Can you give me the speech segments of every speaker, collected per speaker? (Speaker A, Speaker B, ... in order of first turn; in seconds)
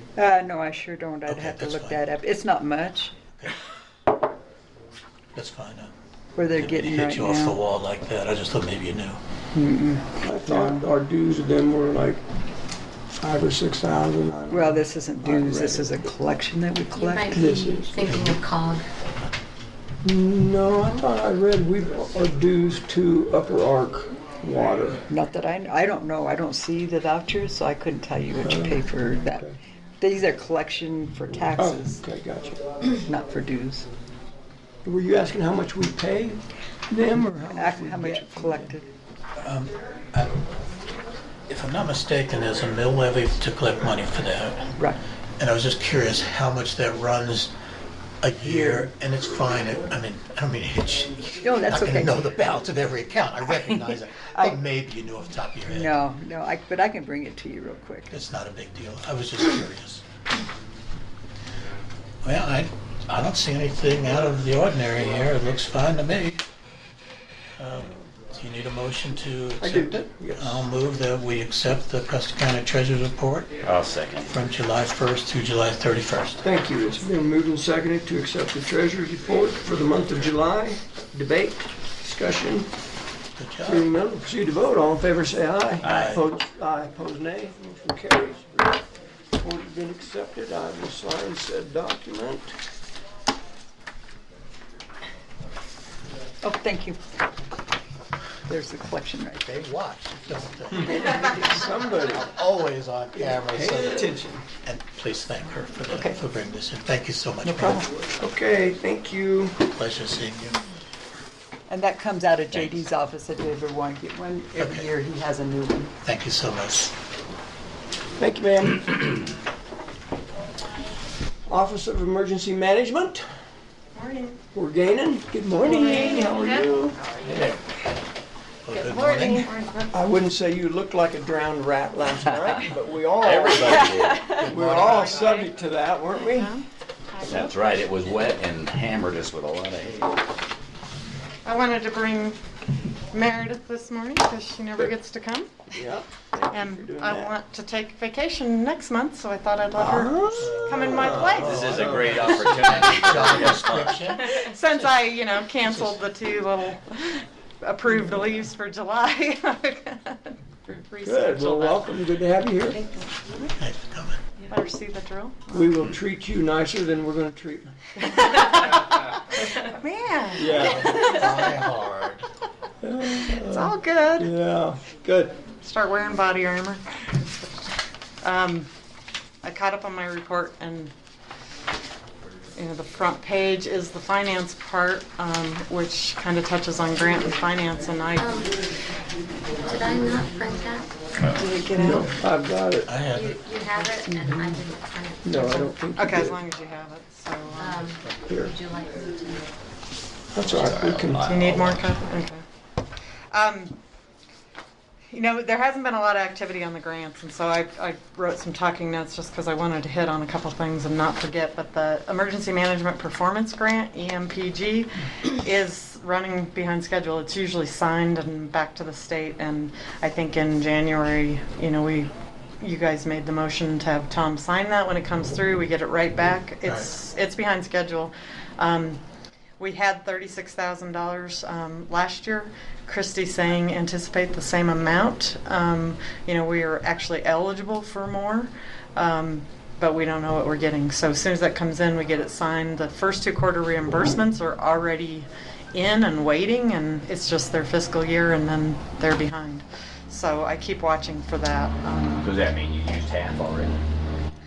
Speaker A: 0.1-3.1, 6.3-7.6, 9.5-10.8, 14.5-17.6, 25.1-29.5, 30.0-32.0, 33.0-33.9, 37.5-38.9, 51.4-52.3, 53.6-54.6, 55.6-58.1, 96.4-97.0, 98.5-99.5, 105.9-106.2, 107.4-107.9, 111.7-115.9, 191.3-192.1
Speaker B: 1.3-2.0, 5.3-5.9, 6.5-9.2, 18.0-18.4, 39.4-40.3, 41.5-44.7, 45.4-47.5, 48.2-56.0, 58.1-60.0, 62.2-66.4, 67.6-73.6, 74.2-76.4, 83.3-83.9, 85.8-86.2, 99.4-101.3, 102.2-107.9, 109.6-110.6, 114.6-114.9, 116.0-116.9, 128.7-129.5, 134.2-135.3, 150.4-155.0, 155.6-156.0, 163.5-164.3, 170.6-172.3, 192.8-194.1, 198.0-198.3, 226.6-226.9
Speaker C: 10.2-12.2, 13.2-16.1, 17.3-18.0, 20.0-25.1, 28.4-28.8, 31.6-32.6, 34.8-38.8, 69.6-70.7, 76.4-82.7, 83.6-88.8, 89.3-92.5, 100.8-102.3, 103.1-104.5, 108.2-109.6, 118.2-119.3, 121.5-123.2, 124.5-127.6, 129.9-136.5, 145.7-147.3, 149.7-152.9, 161.0-162.8, 165.5-167.7, 170.3-171.2, 172.8-175.3, 191.8-192.9, 194.1-194.7, 195.2-196.4, 198.3-198.5, 200.3-201.3
Speaker D: 16.9-18.8, 188.2-188.5, 189.6-190.9, 193.1-195.6, 197.5-199.5
Speaker E: 73.6-74.3, 85.8-86.2, 133.2-134.4, 137.2-140.2, 151.4-154.0, 200.4-201.9, 252.2-253.8
Speaker F: 123.9-124.4, 125.6-126.6, 128.7-129.9, 135.0-135.4, 136.3-137.5, 141.4-142.4, 143.1-145.6, 146.5-151.9, 154.2-161.9, 162.6-163.5, 164.4-165.7, 168.0-171.7, 173.1-174.3, 175.6-178.7, 179.4-180.9, 182.6-188.5, 195.4-197.9, 201.2-202.4, 203.3-203.8, 205.1-229.0, 229.6-252.3